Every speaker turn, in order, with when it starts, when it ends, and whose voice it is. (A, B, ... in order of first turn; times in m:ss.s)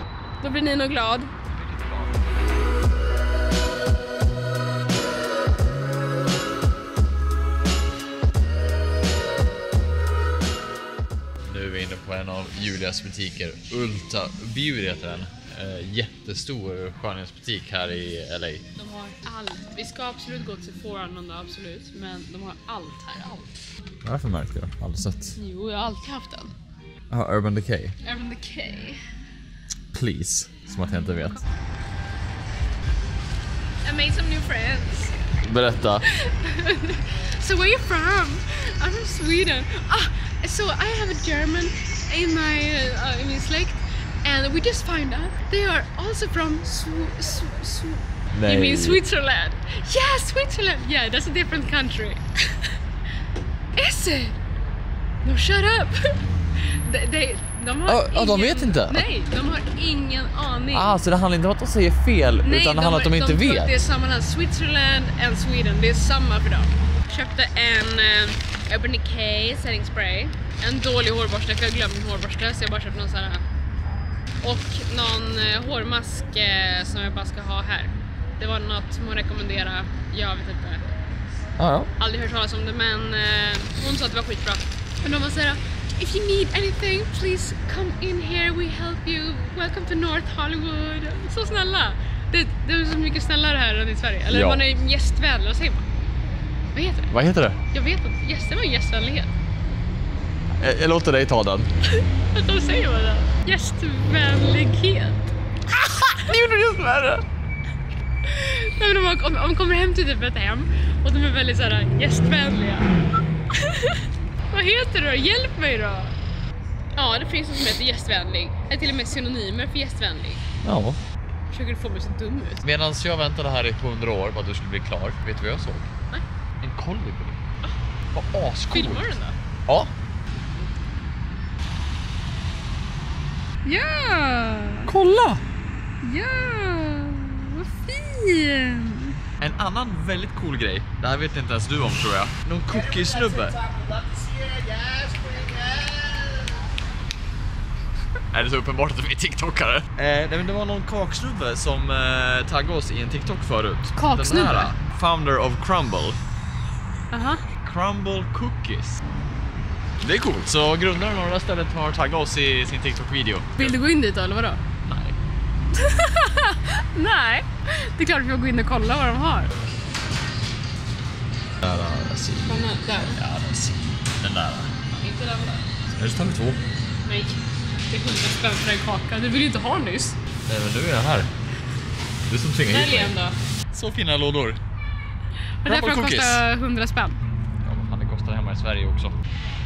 0:00.4-0:01.3 A
0:01.5-0:02.1 B
0:11.4-0:18.6 B
0:18.8-0:23.5 A
0:24.0-0:25.4 B
0:25.4-0:26.5 A
0:27.1-0:28.0 B
0:28.0-0:29.0 A
0:29.9-0:31.4 B
0:33.8-0:35.1 A
0:35.4-0:36.0 B
0:36.0-0:52.8 A
0:48.3-0:49.0 B
0:53.8-0:54.4 A
0:55.2-0:56.1 A
0:56.7-1:01.0 A
0:57.9-0:59.0 B
1:00.7-1:03.7 B
1:02.4-1:13.4 A
1:14.4-1:20.8 A
1:21.6-1:21.9 B
1:22.0-1:35.8 A
1:34.3-1:34.6 B
1:36.8-1:37.1 A
1:37.1-1:37.6 B
1:37.7-1:39.3 A
1:40.6-1:41.7 B
1:42.2-1:45.3 A
1:45.8-1:47.2 B
1:48.2-1:52.9 A
1:53.5-1:56.1 A
1:56.9-2:00.4 A
2:00.6-2:01.0 B
2:01.5-2:02.6 A
2:02.6-2:05.9 B
2:06.6-2:07.4 B
2:08.1-2:09.0 B
2:08.7-2:09.4 A
2:13.6-2:14.9 A
2:14.8-2:15.4 B
2:16.0-2:19.2 A
2:19.4-2:23.6 B
2:24.9-2:26.4 B
2:28.3-2:36.2 B
2:34.0-2:34.7 A
2:37.1-2:37.4 A
2:37.6-2:39.0 B
2:40.0-2:43.8 B
2:43.6-2:44.6 A
2:44.8-2:45.2 B
2:45.7-2:49.5 A
2:51.6-2:54.7 B
2:52.4-2:53.2 A
2:54.9-2:55.7 A
2:55.9-2:56.6 B
2:57.0-3:00.2 A
3:00.5-3:01.3 B
3:02.3-3:03.1 B
3:02.7-3:03.4 A
3:03.7-3:04.6 B
3:05.6-3:07.2 A
3:05.6-3:06.4 B
3:07.6-3:09.1 B